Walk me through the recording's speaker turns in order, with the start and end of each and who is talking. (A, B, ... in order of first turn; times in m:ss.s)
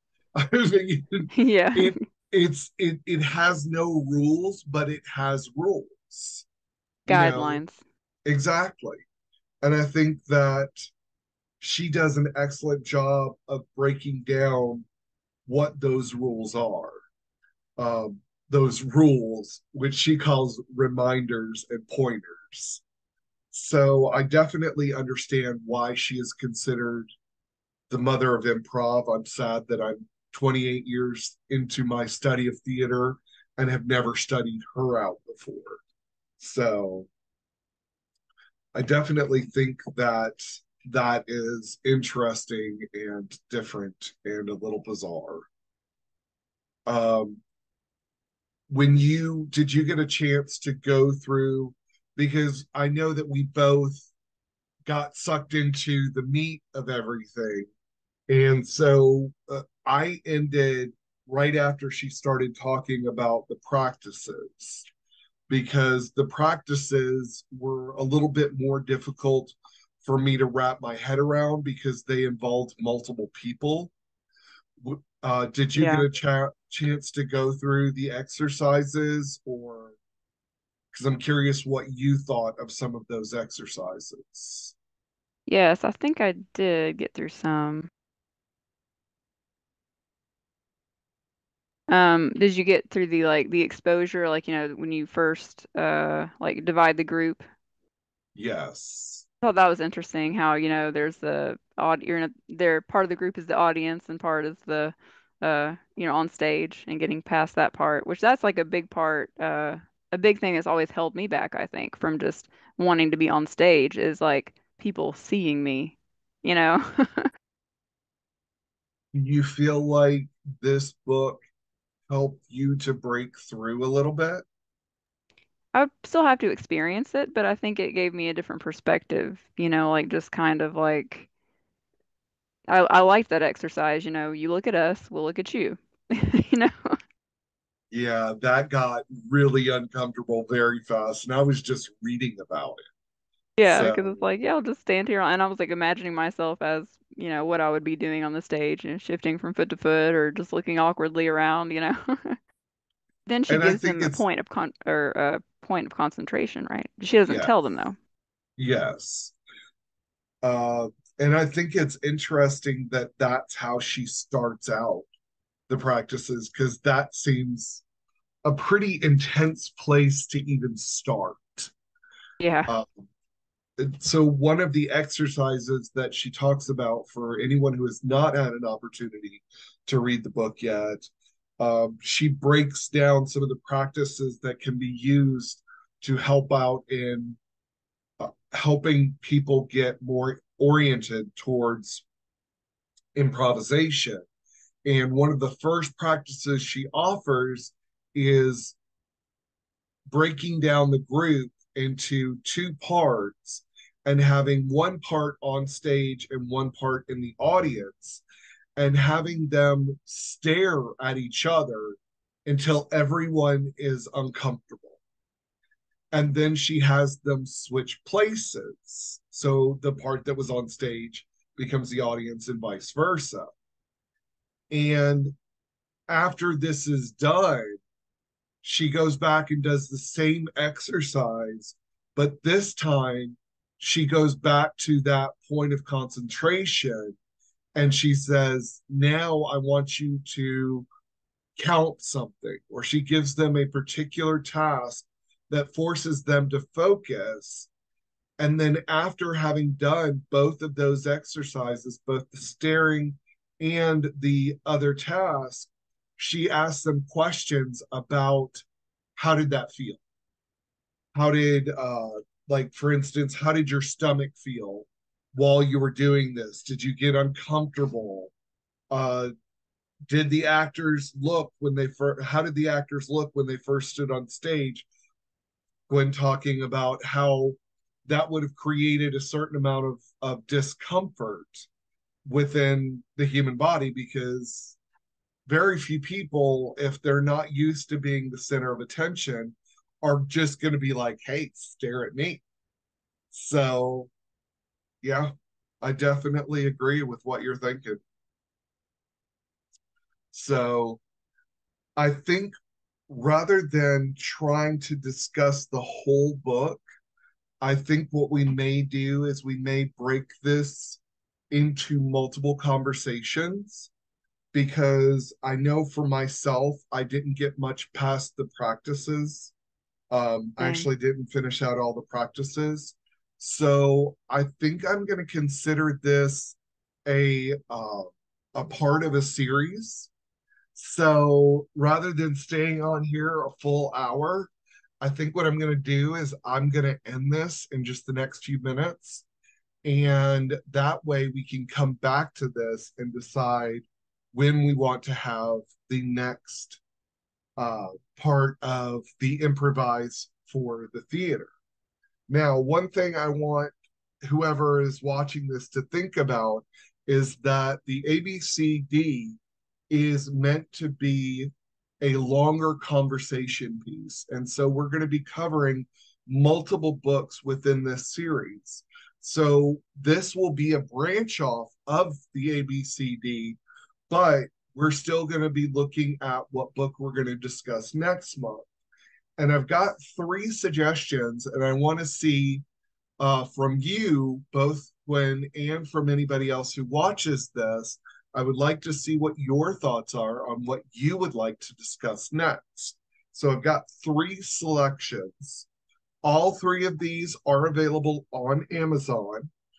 0:00.4-0:06.4 A
0:01.3-0:01.9 B
0:07.0-0:07.6 A
0:07.1-0:07.8 B
0:08.2-0:09.0 A
0:09.6-0:10.9 A
0:11.6-0:14.8 A
0:15.4-0:17.0 A
0:17.8-0:22.8 A
0:23.5-0:27.1 A
0:27.9-0:35.8 A
0:36.4-0:37.1 A
0:38.7-0:45.5 A
0:46.9-0:47.4 A
0:48.7-0:54.1 A
0:54.8-0:57.7 A
0:58.3-1:04.8 A
1:05.5-1:13.9 A
1:14.8-1:20.0 A
1:15.7-1:16.0 B
1:20.9-1:24.7 A
1:25.5-1:27.9 B
1:31.9-1:37.4 B
1:38.4-1:39.2 A
1:39.4-1:57.3 B
1:59.1-2:01.4 A
2:02.1-2:04.4 A
2:05.7-2:11.3 B
2:12.7-2:17.0 B
2:17.9-2:22.8 A
2:23.6-2:32.4 B
2:23.6-2:24.2 A
2:33.2-2:38.0 B
2:33.5-2:34.2 A
2:38.6-2:39.3 A
2:40.4-2:45.0 A
2:45.7-2:47.8 A
2:48.4-2:51.7 A
2:52.4-2:52.7 B
2:52.7-2:53.0 A
2:53.8-3:01.1 A
3:01.6-3:07.4 A
3:08.2-3:12.0 A
3:13.1-3:14.2 A
3:14.8-3:18.8 A
3:20.1-3:28.2 A
3:28.8-3:35.0 A
3:36.1-3:43.5 A
3:44.7-3:45.3 A
3:46.1-3:47.8 A
3:48.6-3:57.2 A
3:57.8-4:00.9 A
4:01.6-4:07.7 A
4:08.4-4:18.6 A
4:19.2-4:20.0 A
4:21.1-4:28.3 A
4:28.9-4:29.3 A
4:30.1-4:34.8 A
4:35.9-4:41.7 A
4:42.2-4:44.8 A
4:45.5-4:52.4 A
4:53.3-4:54.1 A
4:55.0-4:55.3 A
4:55.8-4:58.0 A
5:00.3-5:01.0 A
5:02.0-5:02.5 A
5:03.1-5:06.8 A
5:07.6-5:11.0 A
5:11.5-5:13.9 A
5:14.5-5:19.5 A
5:20.1-5:30.1 A
5:20.6-5:20.8 B
5:30.7-5:39.2 A
5:39.8-5:46.8 A
5:47.6-5:51.5 A
5:52.3-5:59.4 A
5:59.9-6:13.6 A
6:14.1-6:18.7 A
6:19.4-6:22.6 A
6:23.2-6:35.7 A
6:36.2-6:39.5 A